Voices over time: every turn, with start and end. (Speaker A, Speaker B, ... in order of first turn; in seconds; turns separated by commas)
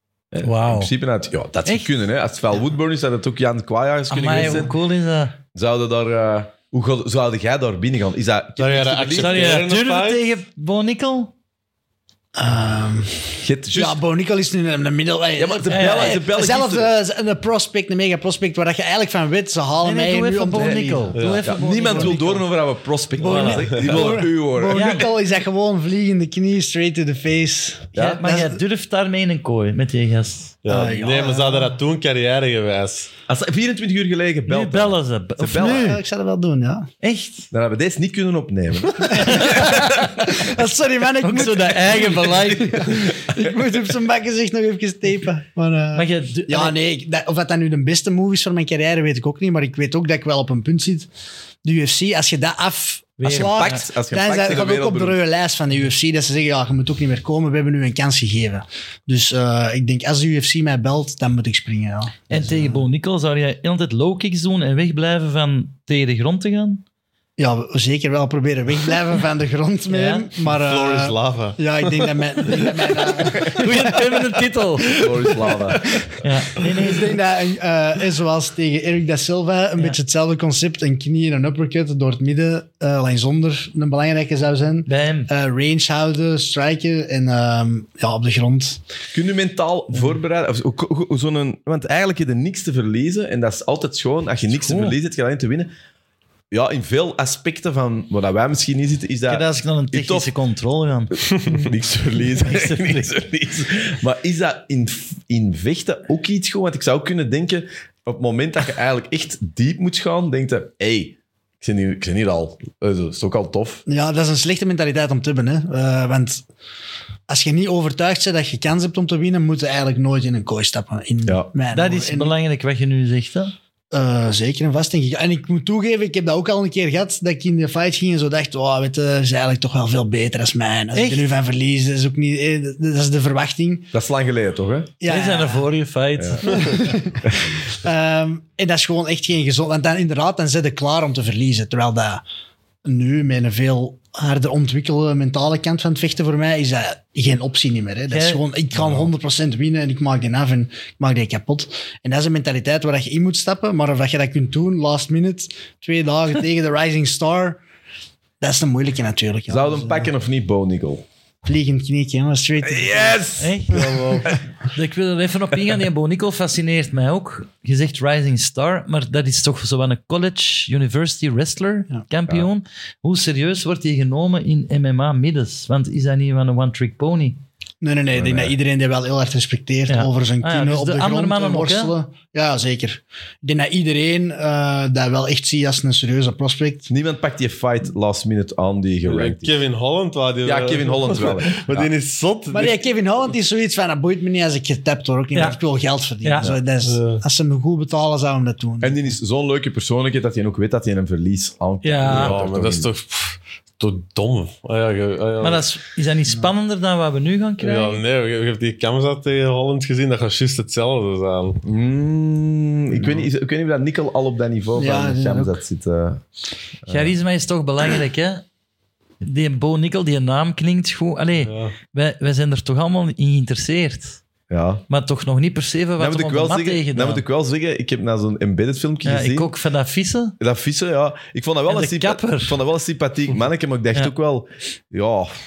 Speaker A: 0.3-4.7, Speaker B: 0.4-0.9, Speaker B: 4.1-5.4, Speaker A: 5.5-9.6, Speaker C: 8.6-10.2, Speaker B: 9.2-11.3, Speaker D: 12.3-21.4, Speaker A: 13.4-14.0, Speaker A: 15.4-16.9, Speaker B: 15.7-16.2, Speaker B: 19.8-22.4, Speaker C: 21.1-21.4, Speaker A: 21.4-25.1, Speaker D: 21.9-22.2, Speaker D: 23.2-28.6, Speaker B: 23.2-23.6, Speaker C: 23.6-24.1, Speaker B: 24.7-25.1, Speaker A: 27.9-28.2, Speaker B: 27.9-30.6, Speaker C: 30.6-33.1, Speaker D: 30.7-31.8, Speaker A: 33.3-36.0, Speaker B: 34.5-36.0, Speaker D: 35.5-36.9, Speaker B: 37.0-37.5, Speaker A: 37.5-40.5, Speaker D: 39.1-51.1, Speaker B: 39.2-39.8, Speaker B: 41.2-43.1, Speaker B: 45.9-46.8, Speaker D: 51.6-62.8, Speaker B: 53.2-53.9, Speaker A: 53.2-55.2, Speaker B: 62.3-66.8, Speaker D: 67.4-74.0, Speaker B: 69.9-70.3, Speaker C: 70.5-73.1, Speaker B: 73.4-75.0, Speaker A: 75.0-76.0, Speaker D: 75.5-75.8, Speaker B: 76.2-77.1, Speaker D: 76.6-88.8, Speaker B: 84.8-85.3, Speaker A: 89.1-95.7, Speaker B: 94.5-94.9, Speaker A: 96.5-100.3, Speaker B: 99.3-101.2, Speaker A: 101.4-113.8, Speaker B: 102.4-103.1, Speaker D: 113.9-116.4, Speaker D: 117.3-122.3, Speaker B: 121.7-123.5, Speaker D: 123.9-133.9, Speaker B: 130.9-131.3, Speaker A: 133.9-134.9, Speaker D: 135.0-135.7, Speaker B: 135.1-136.8, Speaker A: 136.2-136.6, Speaker D: 136.4-142.2, Speaker A: 137.2-137.5, Speaker D: 142.8-157.6, Speaker B: 148.1-148.4, Speaker D: 158.4-160.1, Speaker A: 159.5-161.1, Speaker D: 161.4-163.3, Speaker A: 162.6-163.7, Speaker B: 163.4-164.0, Speaker C: 163.7-164.3, Speaker B: 164.7-177.4, Speaker D: 177.8-186.9, Speaker A: 178.1-178.5, Speaker B: 179.9-181.9, Speaker A: 186.9-189.5, Speaker C: 189.0-192.9, Speaker A: 190.4-191.9, Speaker D: 192.5-199.0, Speaker B: 196.2-196.5, Speaker C: 196.8-197.2, Speaker A: 198.8-202.9, Speaker B: 201.8-202.3, Speaker C: 202.0-205.6, Speaker B: 205.4-208.0, Speaker C: 207.6-211.6, Speaker A: 211.6-216.2, Speaker D: 214.8-215.6, Speaker A: 216.8-217.1, Speaker B: 216.9-218.4, Speaker B: 219.2-224.2, Speaker C: 221.4-221.7, Speaker A: 224.5-224.8, Speaker B: 224.9-227.2, Speaker A: 226.0-229.5, Speaker B: 229.0-230.3, Speaker A: 230.4-235.3, Speaker B: 231.7-232.6